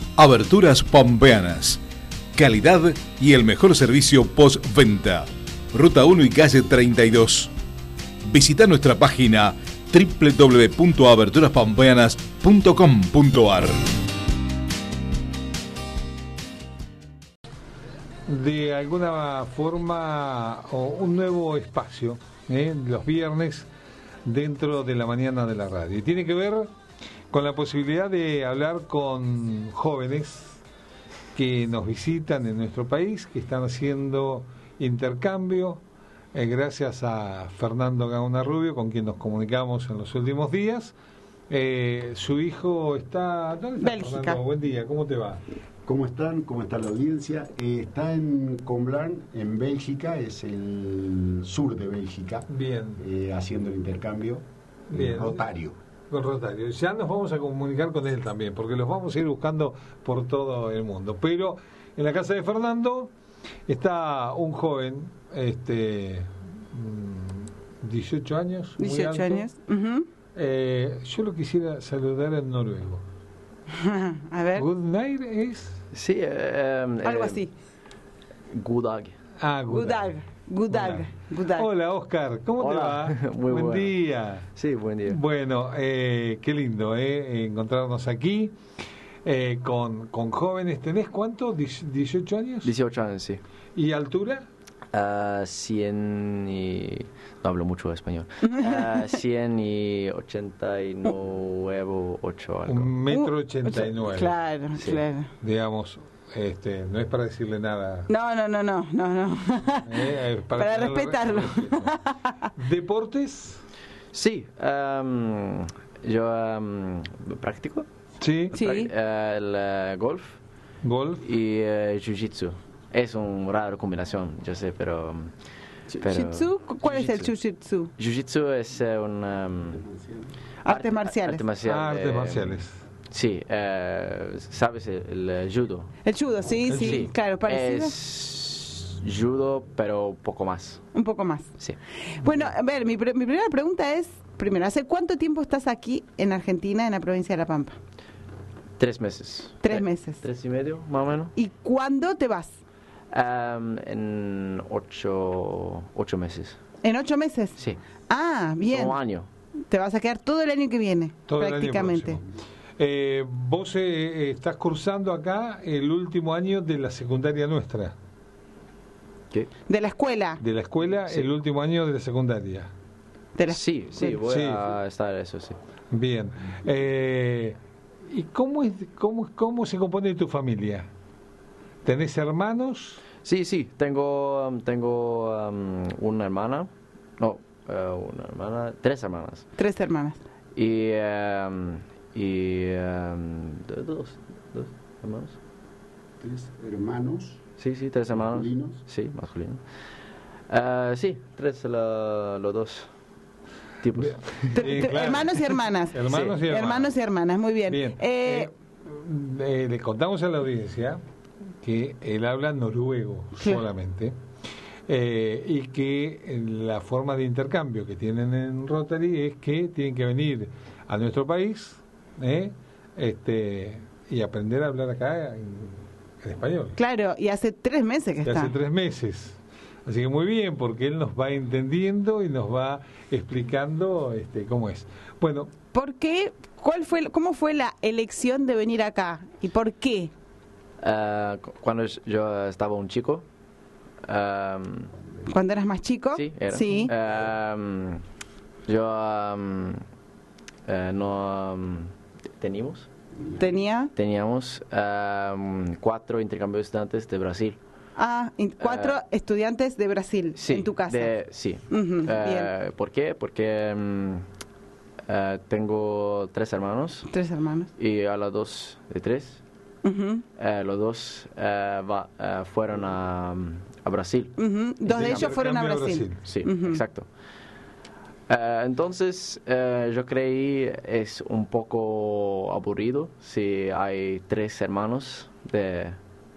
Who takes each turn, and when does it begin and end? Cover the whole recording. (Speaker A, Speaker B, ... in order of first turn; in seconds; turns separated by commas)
Speaker A: 0.2-1.8, Speaker A: 2.3-7.5, Speaker A: 8.2-13.8, Speaker B: 18.3-23.7, Speaker B: 24.2-26.7, Speaker B: 27.3-30.6, Speaker B: 31.3-35.8, Speaker B: 36.3-40.9, Speaker B: 41.5-45.4, Speaker C: 43.8-44.4, Speaker D: 45.9-55.8, Speaker B: 52.5-53.0, Speaker B: 54.9-55.4, Speaker B: 56.1-63.1, Speaker B: 63.7-69.4, Speaker C: 68.8-70.1, Speaker B: 70.3-73.0, Speaker C: 73.7-74.7, Speaker B: 74.5-75.8, Speaker E: 75.9-77.4, Speaker C: 77.0-77.5, Speaker E: 78.5-79.2, Speaker B: 79.4-80.1, Speaker C: 79.7-81.7, Speaker B: 80.7-84.5, Speaker E: 82.6-83.9, Speaker E: 84.5-85.2, Speaker B: 85.1-88.5, Speaker B: 89.2-92.7, Speaker E: 92.6-93.4, Speaker B: 93.8-94.5, Speaker E: 94.9-102.9, Speaker B: 102.7-104.3, Speaker C: 103.1-105.3, Speaker E: 104.8-105.0, Speaker B: 105.4-108.1, Speaker C: 108.1-112.2, Speaker B: 109.8-111.9, Speaker B: 112.6-113.6, Speaker E: 114.1-117.9, Speaker B: 118.2-118.5, Speaker C: 118.5-118.9, Speaker E: 118.5-120.4, Speaker B: 120.8-121.2, Speaker E: 121.2-125.3, Speaker E: 126.0-127.3, Speaker C: 126.0-127.9, Speaker E: 128.0-129.8, Speaker D: 129.8-130.3, Speaker C: 130.6-131.4, Speaker E: 130.7-135.9, Speaker B: 131.6-132.8, Speaker C: 136.0-137.9, Speaker B: 136.7-137.0, Speaker E: 136.7-140.8, Speaker C: 140.9-141.6, Speaker C: 142.1-147.8, Speaker E: 148.8-151.3, Speaker C: 149.6-150.2, Speaker C: 151.3-152.5, Speaker E: 153.1-156.6, Speaker C: 156.8-157.6, Speaker C: 158.1-159.0, Speaker E: 158.7-159.3, Speaker C: 159.7-162.2, Speaker B: 161.3-162.2, Speaker B: 162.8-167.9, Speaker C: 169.7-170.4, Speaker B: 170.4-172.7, Speaker C: 173.3-174.2, Speaker E: 173.5-175.6, Speaker B: 174.2-174.7, Speaker B: 175.9-177.6, Speaker B: 178.1-180.9, Speaker B: 181.8-183.0, Speaker E: 183.2-189.4, Speaker C: 189.6-190.2, Speaker E: 190.5-195.4, Speaker D: 196.2-197.4, Speaker E: 197.6-199.6, Speaker D: 198.1-198.8, Speaker E: 200.5-202.9, Speaker E: 203.8-204.6, Speaker B: 203.9-206.9, Speaker C: 204.5-208.5, Speaker B: 207.7-211.0, Speaker B: 211.6-214.1, Speaker B: 214.9-226.8, Speaker C: 226.8-228.5, Speaker B: 228.2-235.5, Speaker C: 235.7-240.1, Speaker E: 240.8-243.2, Speaker E: 244.0-244.9, Speaker C: 245.3-246.9, Speaker E: 246.1-248.0, Speaker E: 248.7-249.8, Speaker E: 250.7-252.9, Speaker C: 253.4-253.9, Speaker E: 253.9-257.6, Speaker C: 258.0-261.1, Speaker E: 258.6-259.0, Speaker E: 260.4-264.2, Speaker C: 261.7-262.5, Speaker E: 265.1-267.1, Speaker C: 267.1-267.7, Speaker E: 267.8-269.4, Speaker C: 269.8-270.2, Speaker E: 270.4-274.4, Speaker C: 274.4-276.8, Speaker B: 274.9-276.2, Speaker E: 275.0-275.3, Speaker E: 276.2-277.1, Speaker E: 278.3-286.0